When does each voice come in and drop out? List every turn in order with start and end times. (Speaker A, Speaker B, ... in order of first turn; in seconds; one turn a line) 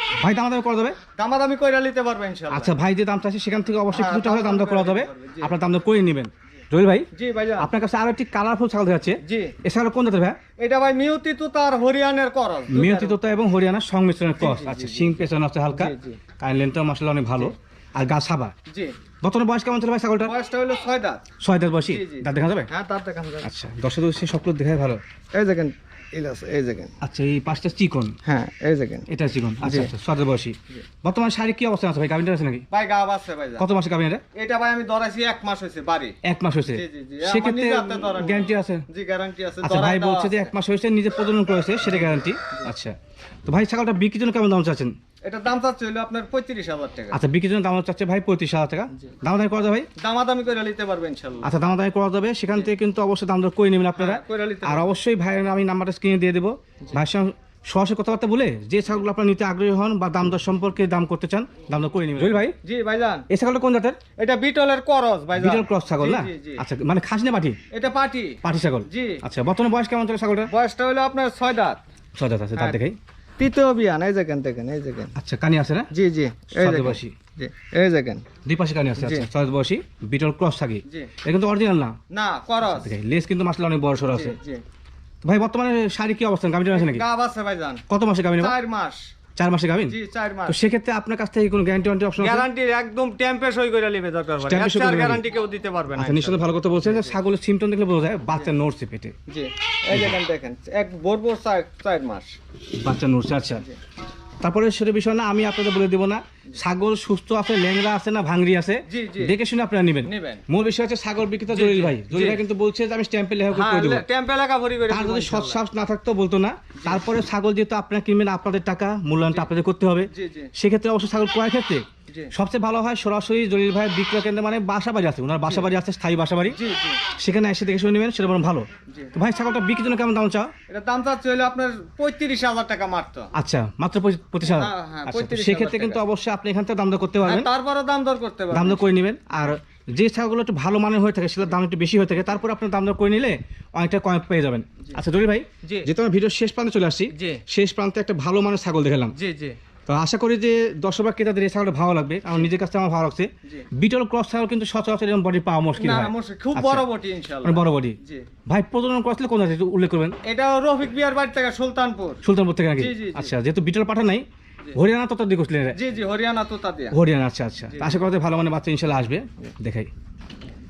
Speaker A: 0.2-1.0
Speaker B: 1.2-2.7
Speaker A: 2.5-7.1
Speaker B: 3.9-5.6
Speaker B: 7.1-7.7
Speaker A: 7.6-10.4
Speaker B: 9.2-9.6
Speaker B: 10.6-13.2
Speaker A: 12.7-18.5
Speaker B: 14.4-15.2
Speaker B: 15.7-16.2
Speaker B: 18.7-18.9
Speaker A: 19.2-20.3
Speaker B: 20.2-21.2
Speaker A: 21.4-22.7
Speaker B: 21.8-23.5
Speaker A: 23.4-25.0
Speaker B: 25.3-26.9
Speaker A: 27.0-28.2
Speaker B: 28.2-29.1
Speaker A: 29.1-32.7
Speaker B: 29.6-29.9
Speaker B: 32.7-33.6
Speaker A: 33.6-34.2
Speaker B: 34.4-40.5
Speaker A: 36.2-38.9
Speaker A: 39.6-43.0
Speaker B: 41.8-42.7
Speaker A: 43.5-44.9
Speaker B: 45.2-47.2
Speaker A: 47.1-49.9
Speaker B: 50.0-51.5
Speaker A: 51.4-62.5
Speaker B: 53.9-54.9
Speaker B: 62.4-63.3
Speaker A: 63.3-64.0
Speaker B: 64.2-66.6
Speaker A: 65.4-67.6
Speaker B: 67.7-69.2
Speaker A: 68.4-70.5
Speaker B: 70.5-71.8
Speaker A: 72.2-73.0
Speaker B: 72.6-72.8
Speaker B: 73.4-75.2
Speaker A: 75.2-75.9
Speaker B: 75.9-78.3
Speaker A: 76.5-77.2
Speaker A: 78.4-82.0
Speaker B: 79.0-79.3
Speaker B: 82.1-82.9
Speaker A: 82.7-84.3
Speaker B: 84.1-84.6
Speaker A: 85.2-87.0
Speaker B: 86.7-87.8
Speaker A: 87.9-88.5
Speaker B: 88.4-89.0
Speaker A: 89.4-92.5
Speaker B: 89.9-90.6
Speaker B: 92.2-97.2
Speaker A: 94.4-95.2
Speaker A: 96.0-99.2
Speaker B: 99.3-102.3
Speaker A: 102.8-103.6
Speaker A: 104.4-114.0
Speaker B: 108.9-109.4
Speaker B: 110.0-110.4
Speaker B: 111.5-112.4
Speaker B: 113.5-115.6
Speaker A: 114.9-126.6
Speaker B: 116.8-117.0
Speaker B: 120.1-120.5
Speaker B: 126.5-127.0
Speaker A: 127.1-130.5
Speaker B: 130.7-133.3
Speaker A: 133.3-137.5
Speaker B: 134.4-136.0
Speaker B: 137.2-138.9
Speaker A: 138.5-149.2
Speaker B: 145.6-145.9
Speaker B: 147.1-147.4
Speaker B: 149.2-149.6
Speaker A: 149.9-156.8
Speaker B: 155.8-158.3
Speaker A: 157.4-160.2
Speaker B: 160.2-162.2
Speaker A: 162.2-165.8
Speaker B: 162.8-163.3
Speaker B: 165.7-167.0
Speaker A: 166.9-169.9
Speaker B: 167.7-168.1